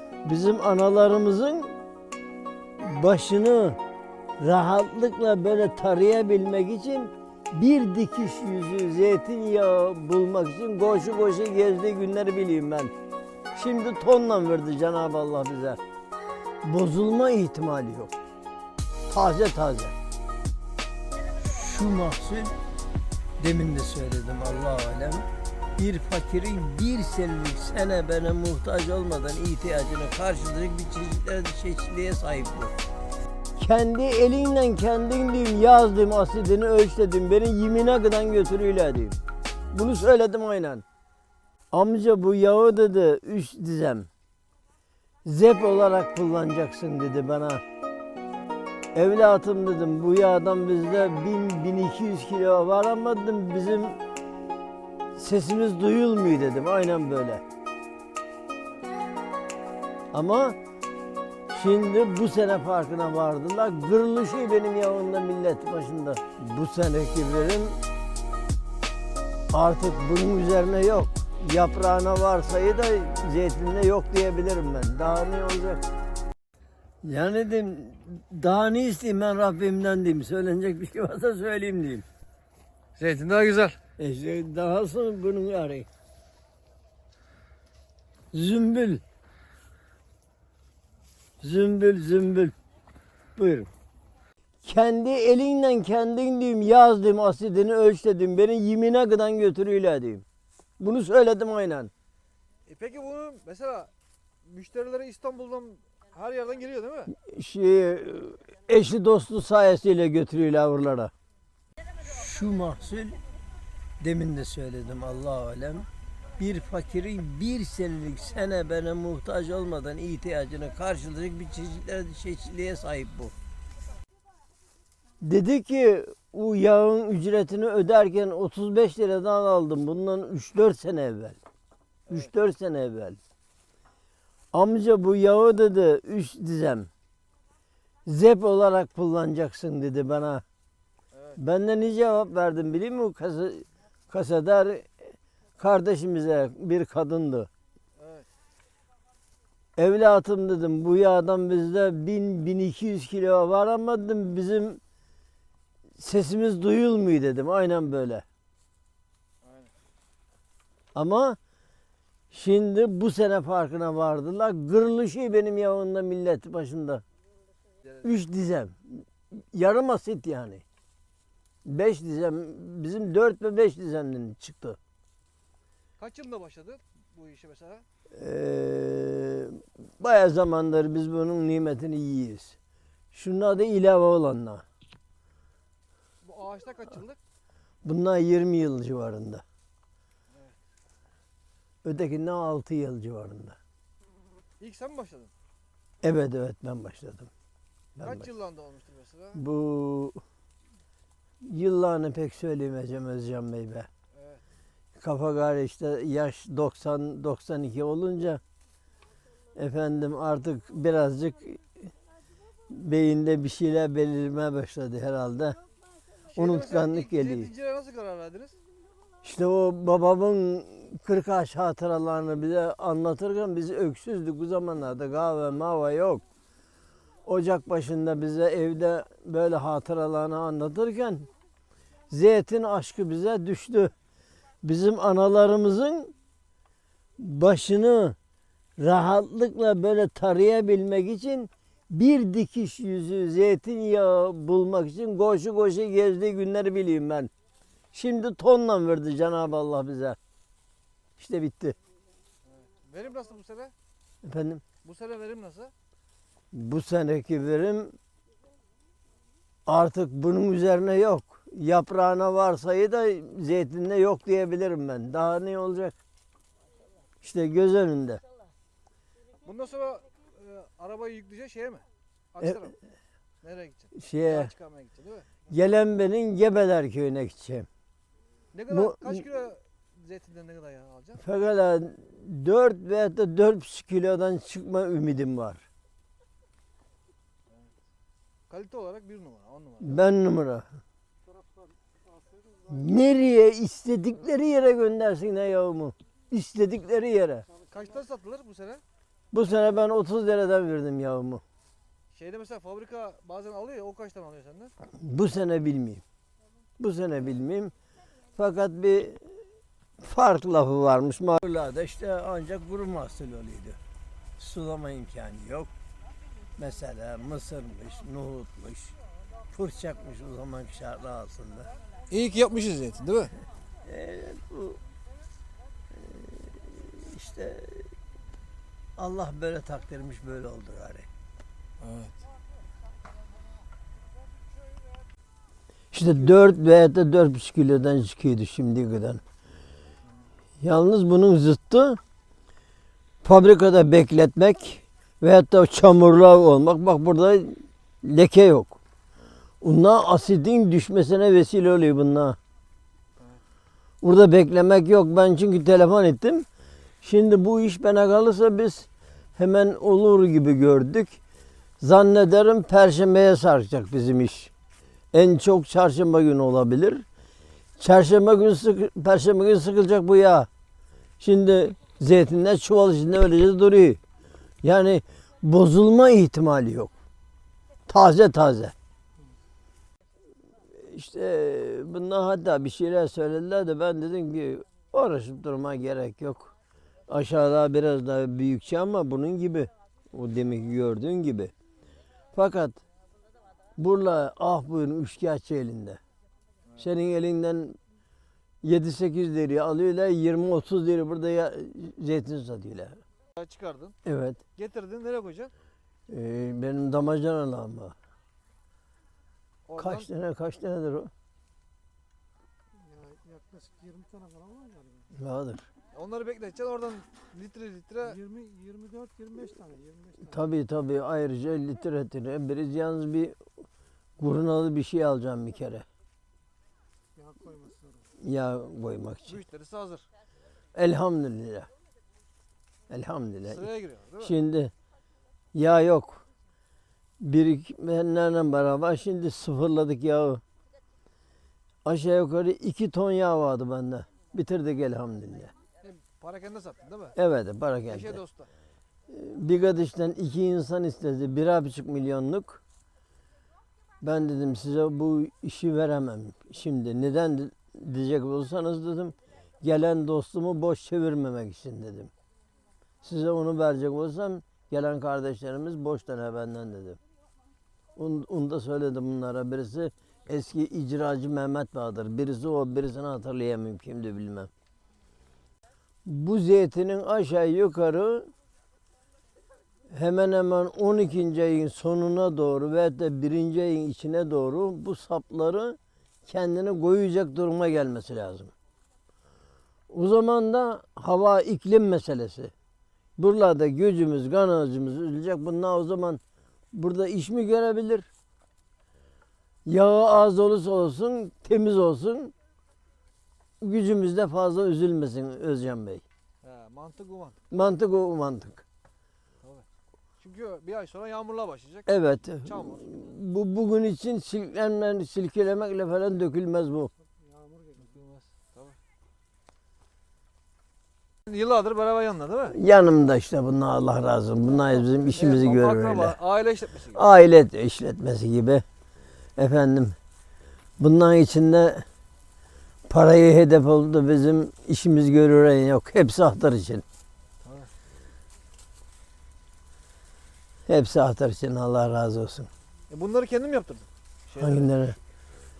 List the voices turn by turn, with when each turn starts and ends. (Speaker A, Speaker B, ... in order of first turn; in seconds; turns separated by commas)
Speaker A: 0.2-1.7, Speaker A: 2.8-3.8, Speaker A: 4.4-12.9, Speaker A: 13.6-15.8, Speaker A: 16.6-18.1, Speaker A: 19.1-19.9, Speaker A: 21.4-22.6, Speaker A: 23.4-32.7, Speaker A: 33.6-39.2, Speaker A: 39.7-40.8, Speaker A: 41.7-44.1, Speaker A: 45.2-47.6, Speaker A: 48.9-54.0, Speaker A: 55.1-57.4, Speaker A: 60.1-60.5, Speaker A: 61.5-67.8, Speaker A: 69.5-75.8, Speaker A: 77.0-82.0, Speaker B: 83.0-83.8, Speaker A: 84.0-85.9, Speaker A: 88.3-89.0, Speaker A: 91.4-92.5, Speaker A: 93.3-93.7, Speaker A: 94.6-100.2, Speaker A: 100.8-101.9, Speaker B: 102.7-103.9, Speaker B: 104.5-107.1, Speaker A: 107.1-111.1, Speaker A: 112.0-113.2, Speaker A: 114.0-123.3, Speaker A: 125.2-131.4, Speaker A: 132.1-133.2, Speaker A: 134.5-136.9, Speaker A: 138.1-140.4, Speaker B: 141.1-141.4, Speaker A: 141.3-145.0, Speaker A: 145.6-147.5, Speaker B: 148.0-148.3, Speaker A: 149.8-154.8, Speaker A: 156.0-158.2, Speaker B: 159.4-159.7, Speaker A: 160.9-161.4, Speaker A: 162.3-167.0, Speaker A: 168.0-170.6, Speaker A: 171.6-174.8, Speaker B: 176.0-177.8, Speaker A: 178.1-182.6, Speaker A: 183.1-184.6, Speaker B: 186.2-187.2, Speaker A: 187.8-189.4, Speaker A: 191.8-193.6, Speaker B: 194.6-195.3, Speaker A: 196.0-197.3, Speaker A: 197.9-198.3, Speaker B: 198.0-199.4, Speaker A: 199.3-200.2, Speaker A: 201.4-203.9, Speaker B: 204.1-204.4, Speaker A: 205.0-208.4, Speaker A: 209.5-211.6, Speaker A: 212.7-215.6, Speaker B: 216.3-218.6, Speaker A: 216.3-217.5, Speaker A: 219.2-226.2, Speaker A: 227.2-231.3, Speaker A: 232.1-233.9, Speaker A: 234.6-236.1, Speaker A: 237.2-238.2, Speaker A: 238.8-247.3, Speaker A: 247.9-250.2, Speaker A: 251.2-251.8, Speaker B: 252.5-253.7, Speaker A: 254.2-254.6, Speaker B: 254.8-255.7, Speaker A: 256.5-257.9, Speaker A: 259.7-266.0, Speaker A: 267.2-268.2, Speaker B: 269.4-272.8, Speaker B: 273.4-275.5, Speaker A: 273.9-274.5, Speaker A: 275.5-277.7, Speaker B: 278.5-281.2, Speaker A: 278.7-279.2, Speaker A: 281.2-285.6, Speaker B: 288.5-290.0, Speaker A: 289.8-290.7, Speaker A: 292.7-297.5, Speaker B: 297.7-298.8, Speaker A: 299.3-301.4, Speaker B: 302.1-304.7, Speaker A: 305.0-306.0, Speaker A: 306.8-307.7, Speaker A: 308.4-309.2, Speaker A: 310.0-313.8, Speaker A: 314.4-315.7, Speaker A: 316.6-318.9, Speaker A: 319.5-321.7, Speaker B: 322.1-323.3, Speaker A: 323.8-324.8, Speaker A: 326.0-327.9, Speaker A: 329.0-331.1, Speaker B: 331.8-332.2, Speaker A: 335.9-339.2, Speaker A: 340.6-342.0, Speaker A: 343.2-348.8, Speaker A: 349.6-352.4, Speaker A: 354.0-356.4, Speaker A: 357.0-361.2, Speaker A: 361.8-364.5, Speaker A: 365.1-367.0, Speaker A: 367.8-370.5, Speaker A: 371.2-374.0, Speaker A: 374.6-376.9, Speaker A: 377.9-378.7, Speaker A: 380.7-386.5, Speaker A: 387.1-391.5, Speaker A: 392.3-392.8, Speaker A: 393.8-396.0, Speaker A: 396.8-397.8, Speaker A: 398.6-403.0, Speaker B: 403.4-404.0, Speaker A: 404.0-404.4, Speaker B: 404.6-405.5, Speaker A: 406.1-407.9, Speaker B: 409.7-410.1, Speaker A: 409.8-411.1, Speaker C: 413.1-414.8, Speaker A: 415.1-415.6, Speaker B: 415.9-418.4, Speaker C: 418.4-419.9, Speaker A: 420.2-423.4, Speaker A: 424.2-425.9, Speaker A: 428.2-429.4, Speaker B: 429.2-430.1, Speaker A: 430.7-431.7, Speaker A: 432.9-433.7, Speaker B: 433.4-434.3, Speaker A: 434.2-434.7, Speaker A: 435.5-436.2, Speaker A: 437.2-440.4, Speaker A: 441.8-445.5, Speaker B: 445.8-447.2, Speaker A: 447.1-448.2, Speaker B: 447.9-448.5, Speaker A: 449.1-452.6, Speaker A: 454.0-462.1, Speaker A: 463.0-467.0, Speaker A: 467.9-474.5, Speaker A: 476.0-478.3, Speaker A: 479.9-488.5, Speaker A: 489.9-492.5, Speaker A: 493.2-496.2, Speaker A: 496.7-498.1, Speaker A: 499.6-502.3, Speaker A: 503.6-506.0, Speaker B: 506.4-507.6, Speaker A: 507.5-508.6, Speaker B: 510.2-511.9, Speaker A: 511.9-516.9, Speaker B: 512.4-513.0, Speaker B: 517.7-518.8, Speaker B: 521.2-522.5, Speaker A: 522.5-526.1, Speaker B: 524.8-527.0, Speaker A: 526.9-528.6, Speaker A: 529.4-530.0, Speaker A: 530.8-531.8, Speaker A: 532.9-536.8, Speaker B: 537.4-537.7, Speaker A: 540.7-542.5, Speaker B: 542.9-544.7, Speaker A: 544.4-545.0